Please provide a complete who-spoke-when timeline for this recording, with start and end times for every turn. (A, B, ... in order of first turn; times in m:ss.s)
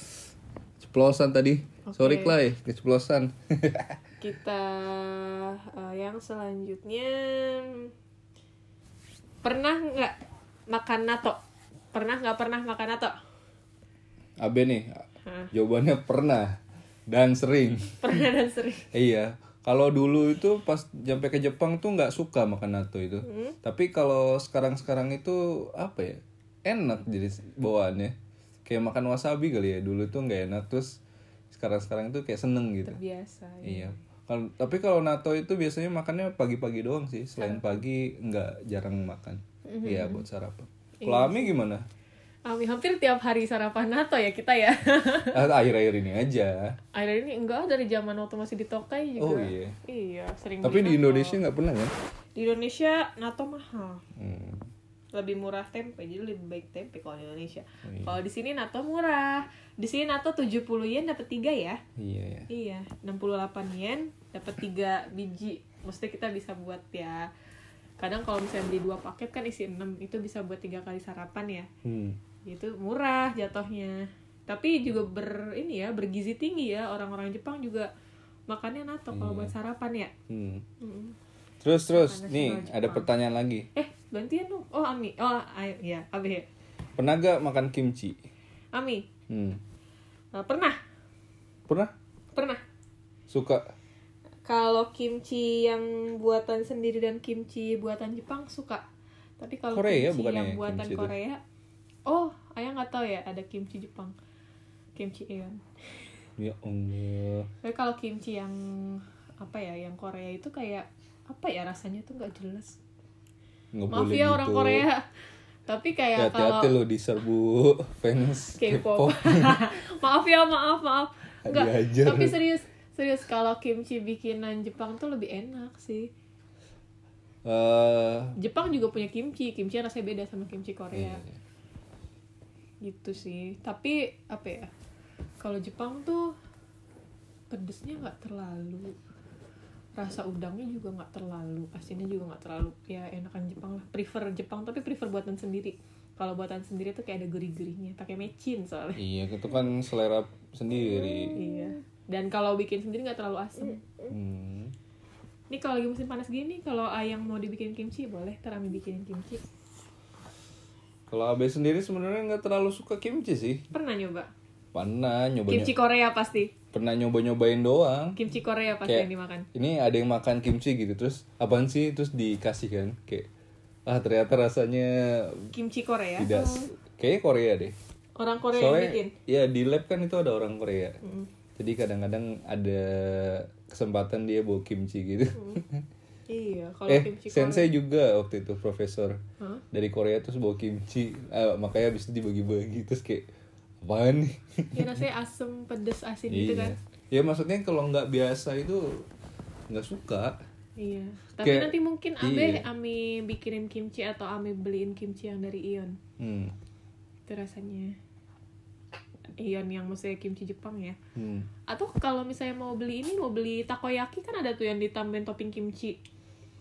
0:00.8-0:04.0 A
0:01.9-0:02.4 B
0:04.2-0:07.9 B
0:09.4-0:10.1 B
0:10.7-0:11.4 B
0:11.9-0:13.2 B
0:14.4-0:18.2 A
0:15.2-0:15.5 B
0:18.0-0:18.9 B
0:18.9-0:31.0 A
0:23.2-0:23.6 B
0:31.5-0:33.0 A
0:32.8-0:34.0 B
0:33.6-0:41.8 A
0:37.4-0:37.8 B
0:39.7-0:40.2 B
0:41.0-0:41.6 B
0:42.5-0:45.4 B
0:45.3-0:46.8 A
0:46.9-0:51.4 B
0:49.2-0:49.8 A
0:50.6-0:51.9 A
0:52.4-0:54.0 B
0:54.2-0:54.7 A
0:55.1-1:01.8 B
0:57.8-0:58.2 A
1:02.0-1:02.5 A
1:02.5-1:07.3 B
1:08.0-1:11.7 B
1:11.8-1:12.2 A
1:12.5-1:17.9 B
1:18.5-1:20.1 B
1:19.1-1:19.5 A
1:20.3-1:20.6 A
1:20.8-1:21.2 B
1:21.6-1:23.7 A
1:21.9-1:23.1 B
1:23.8-1:26.5 B
1:27.0-1:28.2 A
1:28.7-1:29.1 B
1:29.3-1:29.6 A
1:30.3-1:30.8 B
1:32.4-1:32.6 B
1:33.3-1:33.6 A
1:34.5-1:38.8 B
1:39.4-1:41.4 B
1:39.7-1:41.1 A
1:42.1-1:44.2 B
1:45.0-1:45.6 B
1:46.4-1:47.5 A
1:47.6-1:52.8 B
1:53.7-1:54.9 A
1:53.9-1:55.0 B
1:55.7-1:56.7 B
1:56.2-1:59.6 A
1:58.6-2:06.1 B
2:01.4-2:02.4 A
2:07.4-2:08.4 A
2:08.4-2:11.2 B
2:10.9-2:11.4 A
2:12.8-2:14.7 B
2:15.4-2:16.4 B
2:17.5-2:19.0 B
2:20.0-2:29.0 B
2:29.0-2:31.4 A
2:31.4-2:33.9 B
2:34.1-2:34.7 A
2:35.5-2:39.4 B
2:41.1-2:43.7 A
2:43.7-2:44.3 B
2:44.7-2:45.7 A
2:45.5-2:46.5 B
2:46.7-2:48.2 A
2:48.2-2:49.5 B
2:48.8-2:53.3 A
2:53.9-2:55.5 A
2:55.5-2:56.7 B
2:56.2-2:57.8 A
2:58.2-2:59.1 B
2:58.6-3:01.0 A
3:01.0-3:01.3 B
3:01.6-3:05.8 A
3:05.3-3:05.6 B
3:06.3-3:07.7 B
3:06.9-3:09.2 A
3:09.7-3:13.3 A
3:13.8-3:15.0 A
3:14.7-3:16.8 B
3:16.3-3:19.0 A
3:19.7-3:20.4 A
3:20.8-3:26.0 B
3:21.4-3:22.6 A
3:26.2-3:26.5 A
3:27.3-3:28.0 B
3:29.4-3:31.0 B
3:31.2-3:31.5 A
3:31.7-3:36.0 B